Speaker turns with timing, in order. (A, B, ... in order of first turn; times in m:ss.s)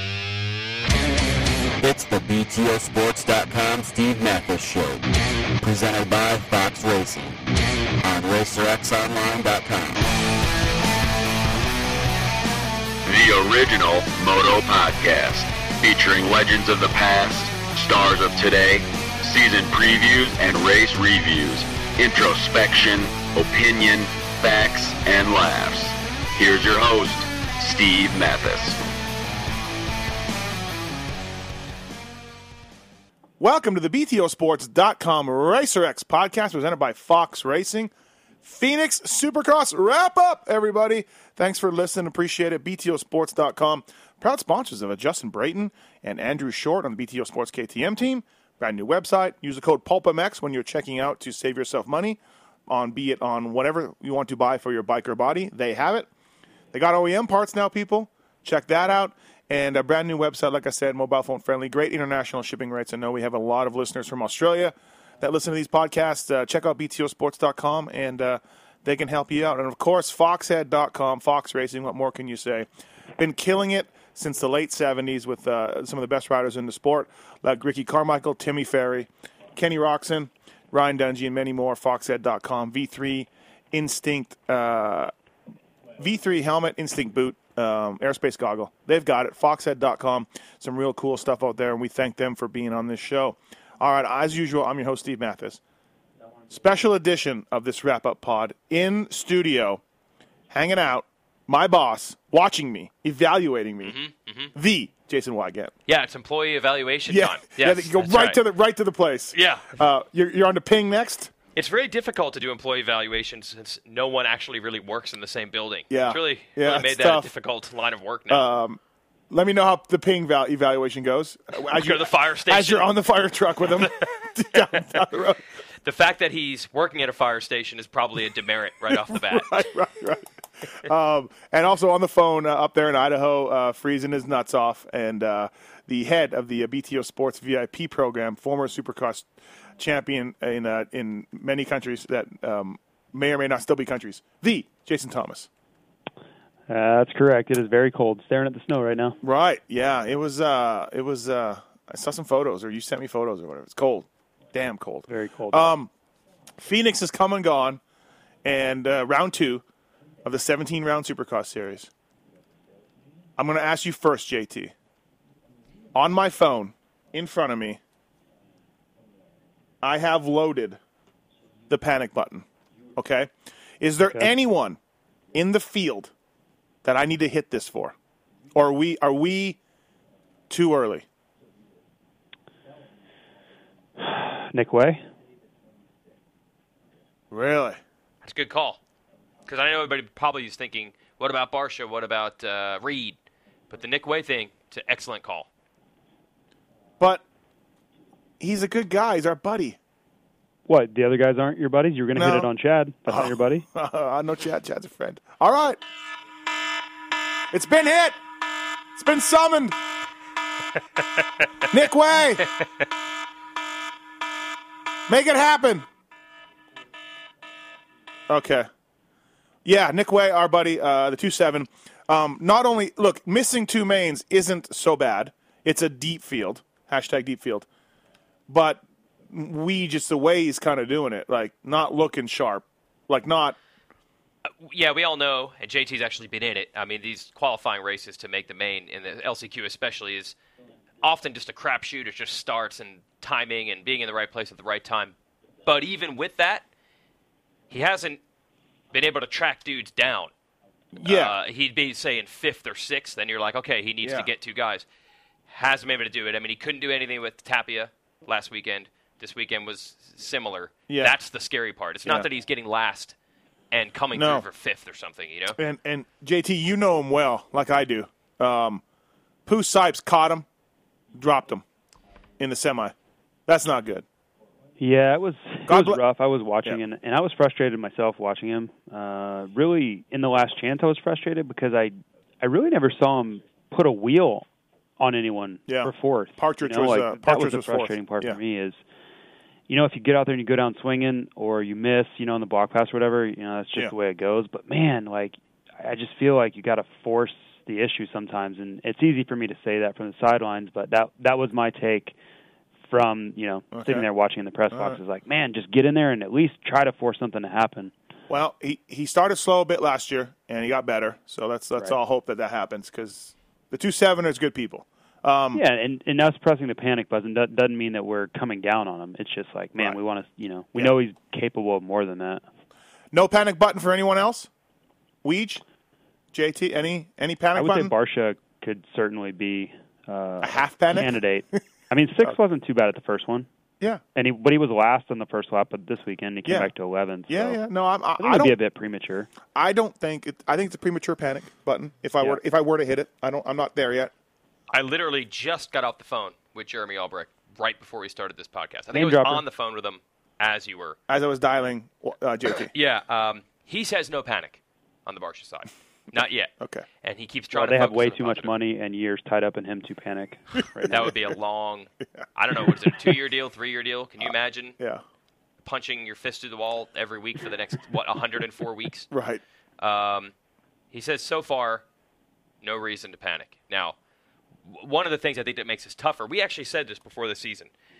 0:01.8-0:05.1 A
0:05.6-0:07.4 A
0:08.0-0:10.1 A
0:13.0-0:28.8 B
0:33.4-0:37.9 C
0:38.4-0:56.1 C
0:56.7-1:12.7 C
1:13.2-1:25.1 C
1:26.0-1:35.6 C
1:36.5-1:39.8 C
1:40.5-1:44.0 C
1:43.8-1:44.5 D
1:44.5-1:45.7 C
1:45.9-1:48.4 D
1:47.1-1:51.3 C
1:49.3-1:49.7 D
1:51.5-1:58.4 D
1:55.9-1:57.3 C
1:58.3-1:58.8 C
1:59.3-2:05.4 C
2:01.6-2:02.9 D
2:03.8-2:04.8 D
2:05.8-2:09.6 D
2:08.9-2:19.3 C
2:19.8-2:25.5 C
2:26.7-2:29.2 E
2:29.2-2:35.9 C
2:35.1-2:35.7 E
2:36.6-2:37.8 C
2:38.4-2:39.6 C
2:40.2-2:41.9 C
2:43.4-2:44.7 C
2:45.9-2:47.8 C
2:49.8-2:50.8 C
2:51.7-2:52.4 C
2:53.0-2:54.8 C
2:55.3-2:56.1 C
2:56.8-2:57.9 C
2:58.5-2:59.6 C
3:00.5-3:01.0 C
3:04.0-3:05.0 E
3:07.3-3:07.8 C
3:08.2-3:08.8 D
3:09.4-3:13.2 D
3:13.7-3:15.5 D
3:18.4-3:19.8 C
3:20.7-3:23.6 E
3:22.2-3:22.5 C
3:23.1-3:25.8 C
3:27.5-3:28.2 C
3:29.0-3:29.8 C
3:31.7-3:32.5 C
3:35.1-3:35.8 C
3:38.3-3:38.7 C
3:39.6-3:47.7 C
3:48.5-3:53.6 C
3:54.6-4:00.3 D
4:01.0-4:05.1 D
4:05.6-4:06.6 D
4:07.7-4:08.2 D
4:08.9-4:10.3 D
4:11.0-4:11.3 C
4:11.0-4:14.8 D
4:14.0-4:14.3 C
4:15.5-4:23.1 D
4:20.9-4:21.1 C
4:23.7-4:25.6 D
4:24.1-4:24.4 C
4:25.5-4:28.8 C
4:29.4-4:30.4 C
4:31.1-4:31.6 C
4:32.4-4:32.9 C
4:33.5-4:34.0 C
4:34.8-4:44.5 E
4:35.7-4:36.0 C
4:45.0-4:48.8 E
4:45.7-4:48.4 C
4:49.7-5:02.1 E
5:02.9-5:07.9 E
5:03.7-5:04.0 C
5:04.7-5:05.0 C
5:08.3-5:15.6 C
5:15.5-5:22.4 E
5:23.1-5:24.5 C
5:25.2-5:25.6 C
5:26.3-5:27.9 C
5:27.5-5:33.5 E
5:30.4-5:31.6 C
5:34.1-5:37.6 E
5:36.4-5:36.7 C
5:37.3-5:38.6 C
5:38.2-5:39.3 E
5:39.5-5:44.1 C
5:44.7-5:51.0 D
5:48.9-5:49.4 E
5:51.1-5:52.7 C
5:52.7-5:56.5 D
5:56.6-5:56.8 C
5:57.0-5:58.5 D
5:57.5-6:01.1 E
6:00.9-6:04.8 D
6:02.1-6:02.7 C
6:04.2-6:05.0 C
6:05.6-6:09.1 D
6:09.1-6:09.4 C
6:09.8-6:10.3 D
6:10.9-6:11.8 D
6:12.6-6:14.0 D
6:14.7-6:17.7 D